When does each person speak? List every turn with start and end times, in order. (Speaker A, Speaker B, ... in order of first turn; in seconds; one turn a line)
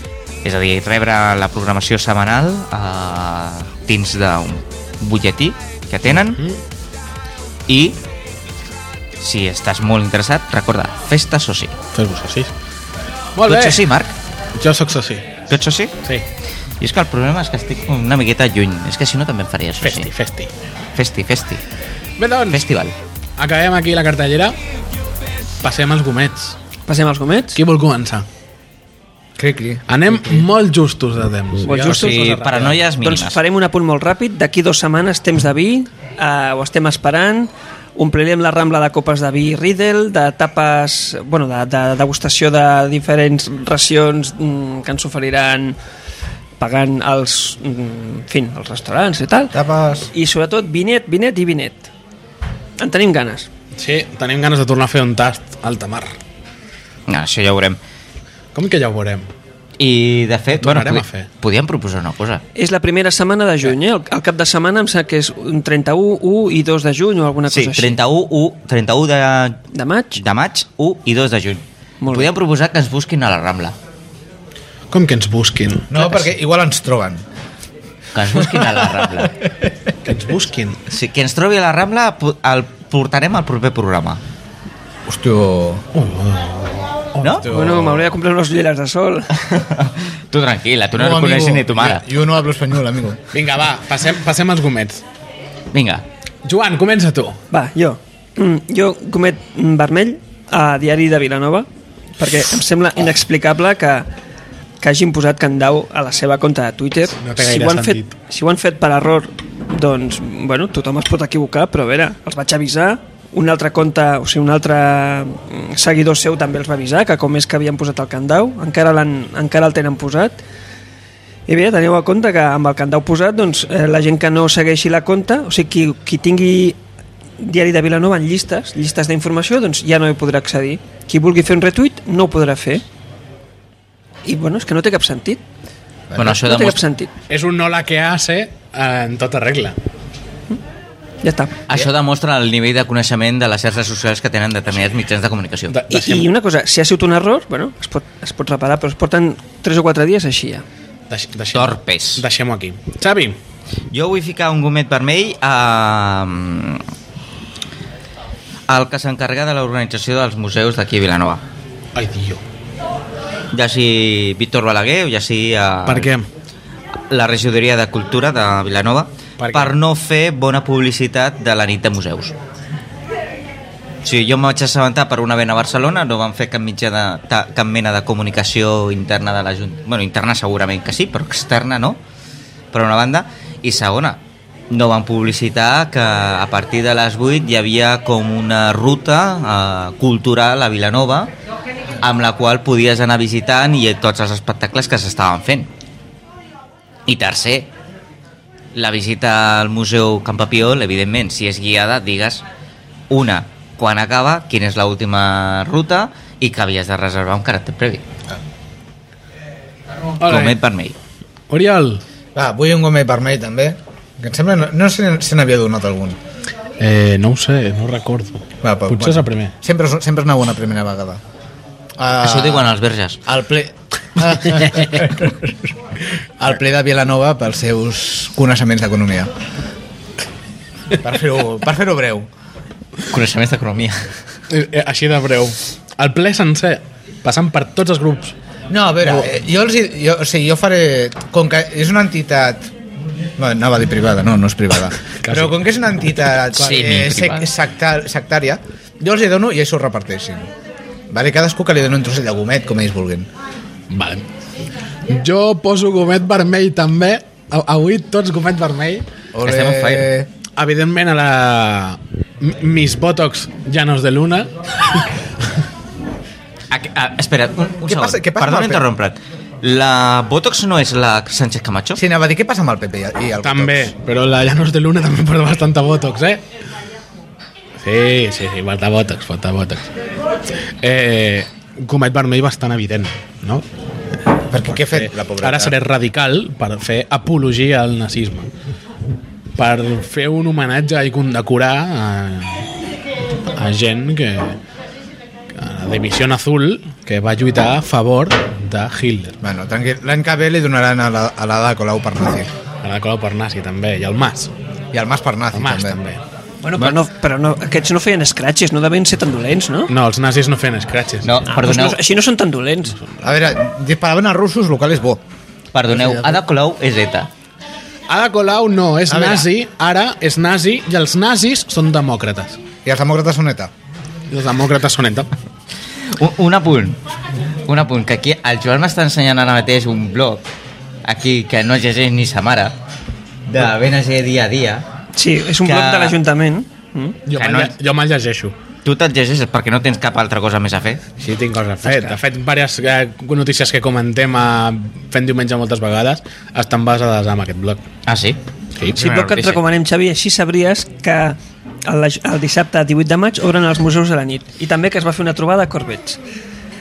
Speaker A: 0.4-6.4
Speaker B: 6.1-6.6
Speaker A: 7.7-8.0
Speaker A: 9.2-11.7
Speaker B: 11.9-12.5
Speaker B: 13.3-13.8
Speaker A: 13.4-14.1
Speaker B: 14.6-15.4
Speaker A: 15.5-15.9
Speaker A: 16.8-20.1
Speaker B: 19.8-20.5
Speaker A: 20.9-21.6
Speaker B: 22.2-22.6
Speaker A: 22.5-22.9
Speaker B: 23.4-24.6
Speaker B: 25.6-26.6
Speaker C: 26.9-27.6
Speaker B: 27.5-28.2
Speaker D: 29.4-29.8
Speaker B: 29.9-32.8
Speaker C: 31.6-45.8
Speaker A: 31.8-33.4
Speaker C: 46.6-49.5
Speaker D: 49.5-50.1
Speaker C: 50.1-51.9
Speaker C: 52.8-53.5
Speaker B: 53.8-56.1
Speaker A: 57.1-57.8
Speaker B: 58.5-59.3
Speaker A: 59.8-62.4
Speaker B: 60.6-61.3
Speaker C: 62.5-67.9
Speaker A: 67.5-73.7
Speaker C: 69.7-70.2
Speaker C: 72.0-72.3
Speaker B: 74.9-76.3
Speaker D: 75.9-77.2
Speaker A: 78.1-79.3
Speaker D: 78.3-79.7
Speaker B: 80.0-80.8
Speaker A: 80.9-84.2
Speaker D: 85.1-85.8
Speaker B: 85.9-87.7
Speaker D: 87.4-88.0
Speaker C: 87.5-89.3
Speaker A: 89.4-92.0
Speaker D: 90.9-93.2
Speaker B: 93.3-95.0
Speaker A: 95.7-96.0
Speaker B: 96.4-97.4
Speaker C: 97.5-104.1
Speaker C: 104.8-120.4
Speaker B: 107.2-108.1
Speaker C: 121.5-126.8
Speaker C: 127.4-132.8
Speaker C: 134.2-135.4
Speaker D: 136.1-136.4
Speaker A: 136.2-136.8
Speaker C: 136.2-137.1
Speaker B: 137.3-139.8
Speaker C: 141.2-141.6
Speaker A: 141.7-145.8
Speaker B: 145.7-146.3
Speaker C: 145.9-150.6
Speaker B: 151.1-153.4
Speaker A: 151.5-152.2
Speaker A: 153.9-156.8
Speaker A: 158.7-161.4
Speaker B: 161.9-162.4
Speaker A: 163.5-166.1
Speaker B: 165.8-166.2
Speaker A: 167.1-172.3
Speaker B: 169.4-169.7
Speaker A: 174.0-182.0
Speaker A: 182.7-191.3
Speaker A: 192.0-195.7
Speaker A: 197.1-197.7
Speaker A: 198.7-202.4
Speaker A: 203.1-208.0
Speaker B: 210.2-210.5
Speaker A: 210.2-210.9
Speaker B: 211.5-212.0
Speaker D: 212.3-216.2
Speaker B: 216.8-219.5
Speaker D: 218.6-221.2
Speaker D: 222.0-222.7
Speaker A: 222.2-223.2
Speaker D: 223.2-225.6
Speaker D: 226.4-229.3
Speaker D: 231.0-232.3
Speaker A: 233.1-234.1
Speaker B: 234.5-238.3
Speaker D: 238.7-242.7
Speaker D: 243.4-250.5
Speaker B: 245.2-245.6
Speaker A: 246.6-247.5
Speaker B: 246.6-246.9
Speaker D: 251.1-253.3
Speaker B: 253.9-254.2
Speaker B: 255.1-259.1
Speaker D: 259.3-260.3
Speaker A: 259.4-260.1
Speaker B: 260.6-265.1
Speaker A: 266.7-272.0
Speaker D: 267.8-268.8
Speaker D: 271.9-273.9
Speaker B: 273.4-276.4
Speaker B: 277.8-279.9
Speaker B: 280.8-283.6
Speaker D: 284.5-285.8
Speaker B: 284.7-288.5
Speaker B: 289.6-292.7
Speaker B: 293.5-294.6
Speaker B: 295.5-299.4
Speaker D: 299.4-302.5
Speaker B: 302.8-304.5
Speaker D: 304.9-306.0
Speaker B: 305.5-306.2
Speaker C: 306.6-309.9
Speaker B: 309.9-311.4
Speaker A: 311.2-312.0
Speaker C: 311.5-312.9
Speaker D: 313.2-315.2
Speaker A: 315.7-317.3
Speaker D: 315.9-316.4
Speaker B: 318.1-322.6
Speaker D: 319.1-319.5
Speaker D: 322.8-323.7
Speaker B: 324.3-325.3
Speaker A: 326.1-327.0
Speaker A: 327.6-330.4
Speaker A: 331.0-332.8
Speaker A: 333.5-334.8
Speaker C: 335.1-337.2
Speaker A: 335.6-336.2
Speaker B: 337.2-338.5
Speaker A: 337.4-337.7
Speaker A: 338.8-341.0
Speaker B: 341.2-347.9
Speaker C: 341.8-342.1
Speaker A: 348.1-349.6
Speaker C: 348.9-356.2